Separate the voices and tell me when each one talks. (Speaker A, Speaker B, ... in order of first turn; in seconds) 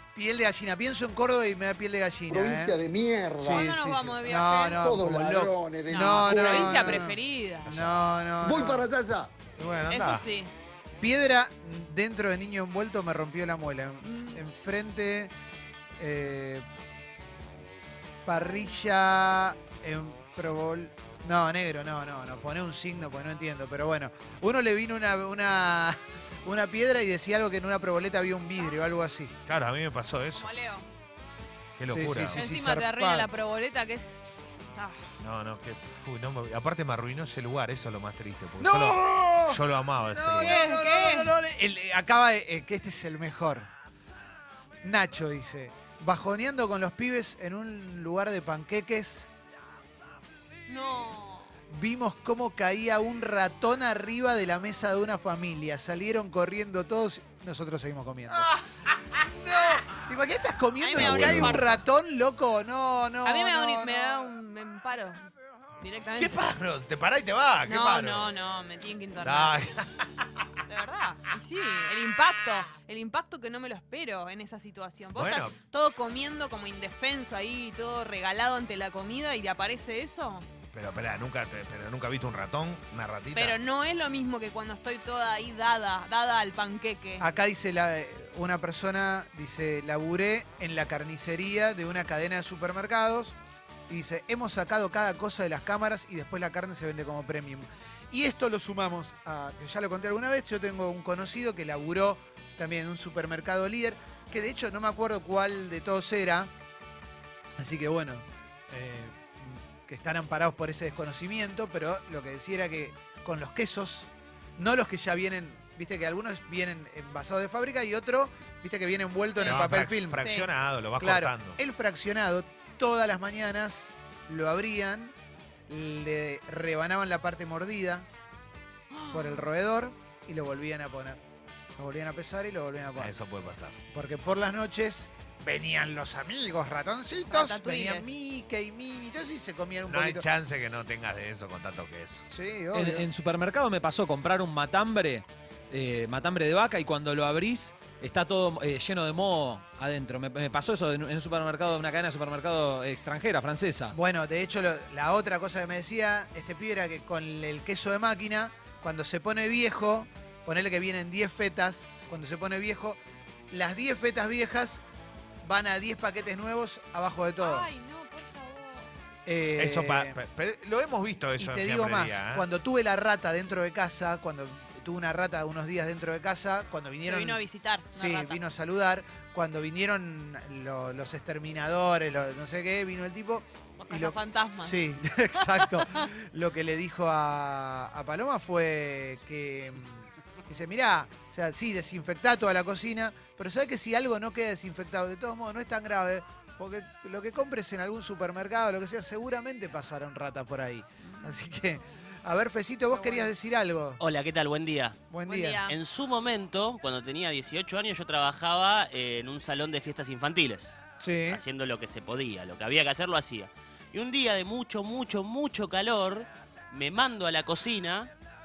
Speaker A: 0.1-2.7, 3.4-8.8, 11.0-15.3, 16.0-16.6, 18.2-29.3, 31.9-33.3, 38.6-43.7, 44.8-49.3, 51.7-58.5, 59.2-64.3, 87.2-93.4, 93.9-106.5, 107.6-120.3, 121.0-125.1, 125.7-128.1, 129.1-131.2, 131.8-133.1, 133.9-140.2, 142.3-143.1, 153.9-164.8, 165.4-167.7, 169.2-170.2, 171.4-177.4, 177.9-204.0, 205.1-205.6, 211.0-211.4
Speaker B: 2.3-3.6, 4.7-7.1, 8.4-9.3
Speaker C: 3.4-4.8, 5.9-7.7, 9.9-10.5, 14.0-14.4, 30.3-30.9, 32.3-35.0, 40.4-41.3, 50.7-51.5, 60.8-61.8, 63.2-65.3, 65.8-66.4, 67.7-69.6, 70.7-80.5, 83.3-87.3, 119.3-120.5, 128.9-129.5, 137.3-138.1, 167.4-168.9, 177.1-178.4, 183.8-186.1, 201.0-201.3, 202.9-203.3, 205.2-205.8
Speaker D: 7.7-7.9, 9.6-10.3, 29.5-30.5, 31.8-32.4, 35.2-40.6, 61.0-61.6, 66.2-68.3, 69.2-70.1, 75.2-75.5, 80.7-83.6, 119.5-121.6, 133.0-133.8, 139.9-142.2, 169.6-172.4
Speaker E: 142.7-153.9
Speaker F: 204.0-205.0, 205.7-218.1